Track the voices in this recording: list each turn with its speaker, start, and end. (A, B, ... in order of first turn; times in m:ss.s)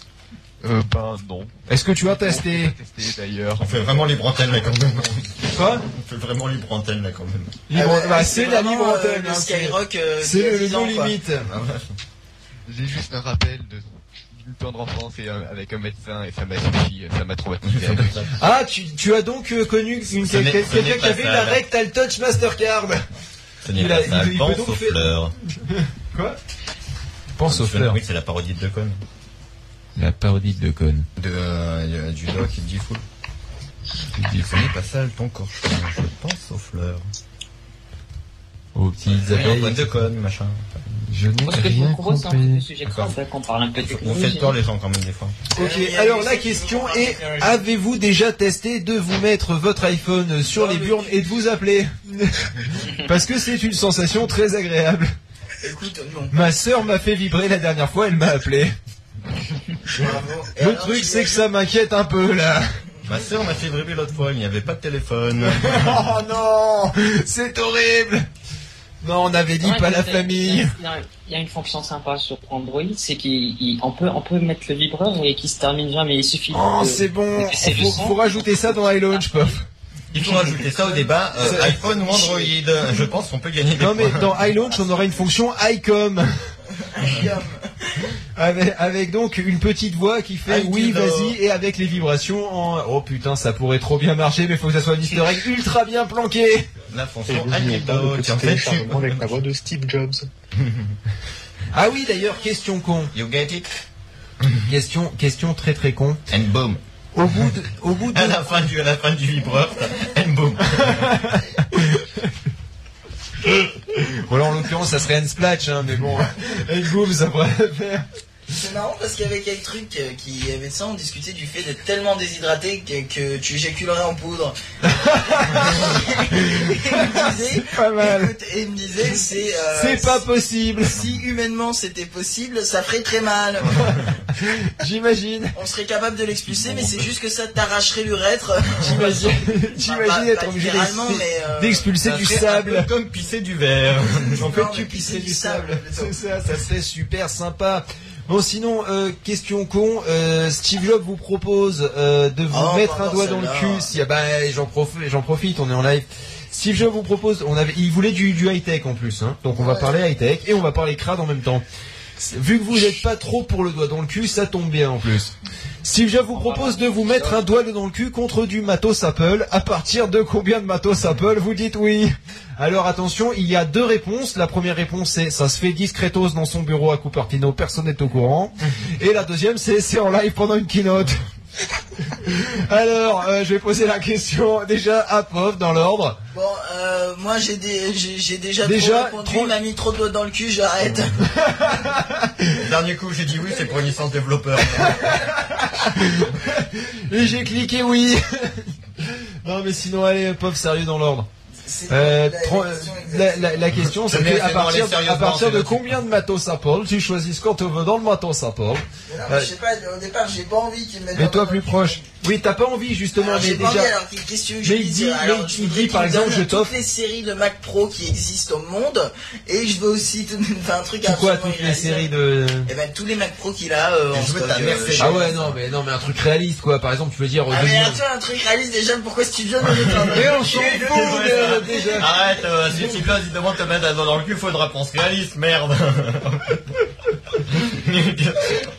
0:00.6-0:03.9 A
0:01.7-0:02.7 B
0:03.6-0:07.6 C
0:05.5-0:05.8 B
0:07.7-0:11.5 B
0:07.7-0:11.1 D
0:11.4-0:11.9 C
0:12.7-0:18.2 A
0:17.6-0:18.3 C
0:18.4-0:23.0 B
0:20.2-0:21.6 C
0:23.6-0:25.3 C
0:23.7-0:25.1 B
0:25.7-0:26.4 B
0:27.4-0:28.0 B
0:27.5-0:29.0 C
0:30.0-0:31.1 B
0:31.2-0:33.0 C
0:34.1-0:34.6 B
0:34.3-0:37.0 C
0:38.7-0:39.9 B
0:39.0-0:40.8 C
0:40.9-0:42.6 B
0:41.5-0:44.6 E
0:43.8-0:45.4 C
0:45.5-0:55.1 B
0:45.6-0:47.6 D
0:50.4-0:51.2 D
0:55.6-0:56.3 D
0:56.3-0:58.7 B
0:59.9-1:01.4 D
1:00.0-1:02.7 B
1:03.0-1:06.1 C
1:05.4-1:08.2 B
1:09.0-1:10.7 B
1:09.6-1:19.6 E
1:16.5-1:19.6 B
1:20.1-1:24.3 C
1:21.4-1:21.8 B
1:21.6-1:22.5 D
1:23.8-1:26.3 B
1:24.4-1:25.2 D
1:26.7-1:27.9 D
1:28.4-1:36.7 B
1:30.5-1:31.4 C
1:36.9-1:39.4 C
1:37.3-1:40.3 F
1:40.5-1:40.9 C
1:41.7-1:43.1 B
1:43.1-1:43.7 C
1:44.6-1:46.2 B
1:46.3-1:46.8 C
1:47.1-1:48.5 B
1:48.1-1:51.2 C
1:50.8-1:52.3 B
1:53.5-1:58.0 B
1:58.5-2:10.2 D
2:04.8-2:08.3 B
2:09.7-2:11.0 B
2:10.9-2:14.0 D
2:13.6-2:14.2 C
2:14.3-2:15.5 B
2:15.5-2:21.9 D
2:16.5-2:17.1 C
2:18.8-2:22.9 B
2:22.0-2:24.7 C
2:24.1-2:26.2 D
2:24.4-2:41.6 B
2:32.5-2:33.9 D
2:39.6-2:40.0 D
2:42.2-2:45.3 B
2:45.8-3:01.2 B
2:46.4-2:47.4 E
3:02.1-3:06.2 B
3:06.3-3:11.2 D
3:08.6-3:09.5 B
3:11.2-3:12.6 B
3:12.6-3:15.2 C
3:14.7-3:21.3 B
3:21.6-3:23.7 D
3:21.9-3:29.5 B
3:23.9-3:25.9 C
3:29.1-3:32.0 D
3:31.1-3:33.9 B
3:33.2-3:42.1 D
3:34.6-3:36.7 B
3:41.0-3:42.7 B
3:42.7-3:45.3 D
3:44.1-3:45.5 C
3:45.0-3:48.0 B
3:47.5-3:52.4 D
3:49.7-3:56.6 C
3:50.1-3:52.1 B
3:57.4-3:58.7 C